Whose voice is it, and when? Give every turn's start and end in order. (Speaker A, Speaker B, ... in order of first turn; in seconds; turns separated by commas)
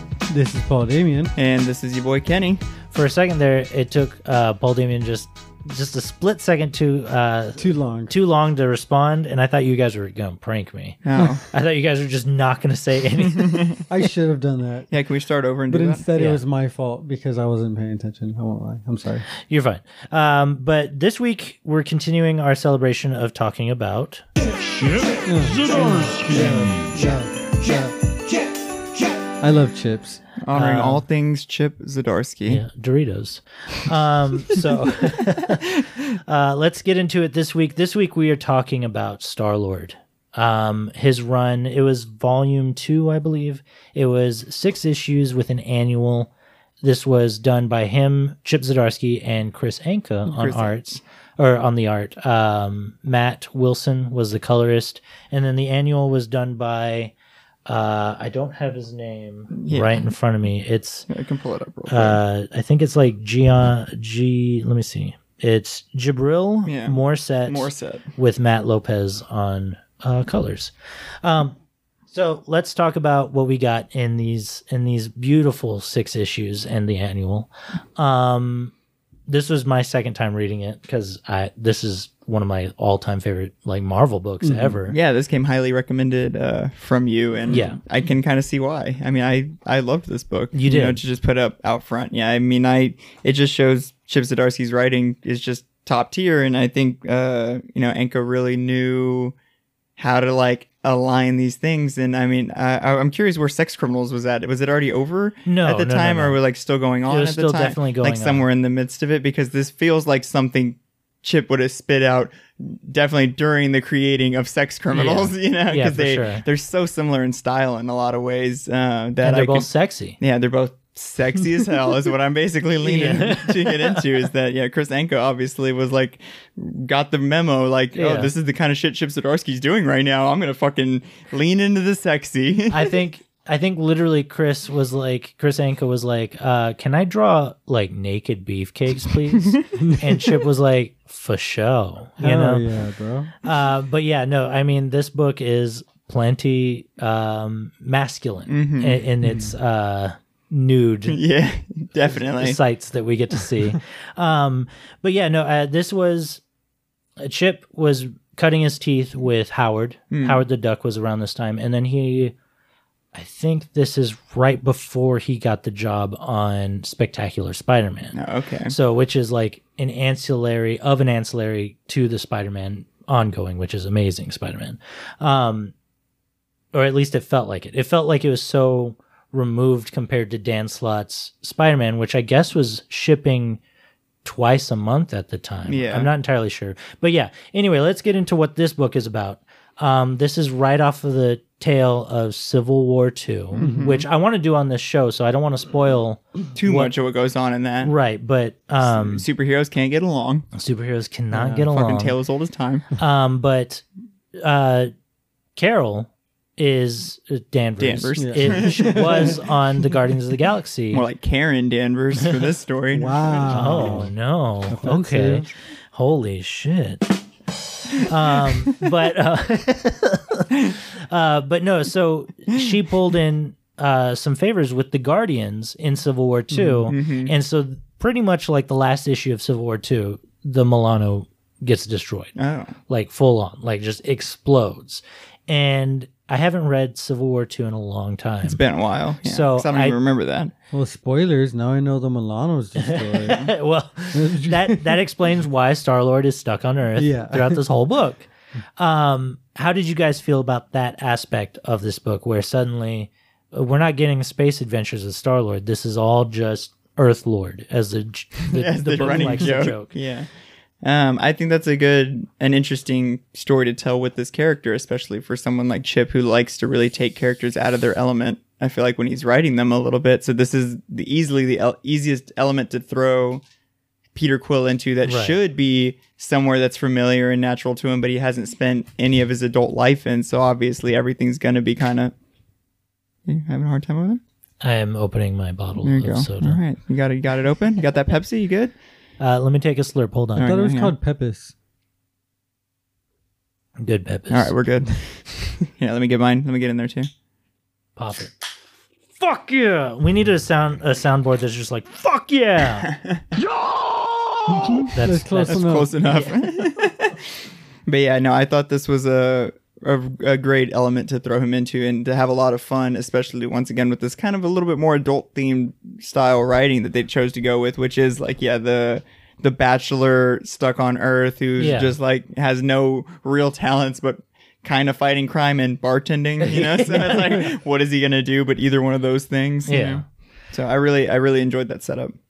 Speaker A: 0.3-1.3, Speaker B: 1.4-2.6, Speaker C: 2.9-13.7, Speaker A: 7.6-8.1, Speaker B: 11.0-11.4, Speaker B: 13.3-13.8, Speaker A: 13.9-14.9, Speaker B: 14.9-16.4, Speaker A: 15.7-19.2, Speaker C: 19.5-24.2, Speaker A: 25.2-27.9, Speaker A: 29.4-30.2, Speaker B: 30.4-32.6, Speaker C: 30.5-31.0, Speaker C: 32.5-46.3, Speaker B: 35.3-36.0, Speaker C: 46.8-57.1, Speaker B: 50.2-50.8, Speaker C: 57.6-61.1, Speaker B: 59.5-60.0, Speaker B: 61.1-62.2, Speaker C: 61.9-70.7, Speaker B: 66.7-68.1, Speaker C: 71.2-71.5, Speaker C: 72.1-78.7, Speaker C: 79.3-85.0, Speaker A: 84.4-84.8, Speaker B: 84.9-99.3, Speaker C: 87.5-87.8, Speaker C: 90.5-91.0, Speaker B: 100.0-119.7, Speaker C: 105.5-106.4, Speaker C: 107.1-108.4, Speaker C: 114.9-116.4, Speaker C: 119.2-120.2, Speaker B: 120.2-132.9, Speaker C: 122.8-124.0, Speaker C: 127.9-128.3, Speaker C: 132.7-142.7, Speaker B: 139.4-139.7, Speaker A: 139.7-140.2, Speaker A: 142.2-143.3, Speaker C: 143.4-151.2, Speaker B: 148.5-149.5, Speaker B: 151.1-152.6, Speaker C: 152.1-156.4, Speaker C: 157.2-162.3, Speaker B: 160.1-160.4, Speaker C: 163.1-168.2, Speaker B: 168.1-168.7, Speaker C: 168.7-175.7, Speaker C: 176.7-183.6, Speaker C: 184.2-196.9, Speaker B: 185.7-186.1, Speaker B: 193.5-194.1, Speaker A: 193.6-194.0, Speaker B: 196.5-197.9, Speaker C: 197.8-199.2, Speaker B: 198.8-200.5, Speaker C: 200.5-202.2, Speaker A: 201.3-201.7, Speaker B: 201.7-202.9, Speaker C: 203.0-203.8, Speaker C: 204.4-204.9, Speaker C: 205.6-211.0, Speaker B: 207.8-209.4, Speaker A: 208.2-209.4, Speaker B: 210.9-214.0, Speaker A: 212.9-214.1, Speaker C: 213.5-217.1, Speaker A: 214.7-215.5, Speaker C: 218.0-232.3, Speaker A: 226.5-226.9, Speaker B: 226.9-227.3, Speaker B: 232.3-232.7, Speaker C: 232.9-238.6, Speaker B: 238.4-240.5, Speaker C: 239.2-240.0, Speaker A: 240.7-243.5, Speaker C: 242.8-248.3, Speaker A: 244.1-245.0, Speaker A: 247.0-247.6, Speaker C: 248.8-259.9, Speaker B: 258.4-260.3, Speaker B: 260.8-273.4, Speaker B: 274.1-282.1, Speaker C: 275.0-275.4, Speaker B: 283.2-284.2, Speaker C: 284.6-286.6, Speaker B: 285.8-288.7, Speaker C: 289.2-290.6, Speaker B: 290.4-290.9, Speaker A: 290.4-291.5, Speaker C: 293.8-294.5, Speaker B: 294.3-297.1, Speaker C: 297.9-298.3, Speaker C: 299.2-302.9, Speaker B: 302.9-303.2, Speaker A: 304.8-305.9, Speaker C: 304.8-306.3, Speaker B: 305.5-307.2, Speaker B: 307.9-332.1, Speaker C: 321.6-321.9, Speaker C: 326.4-327.5, Speaker C: 329.7-330.0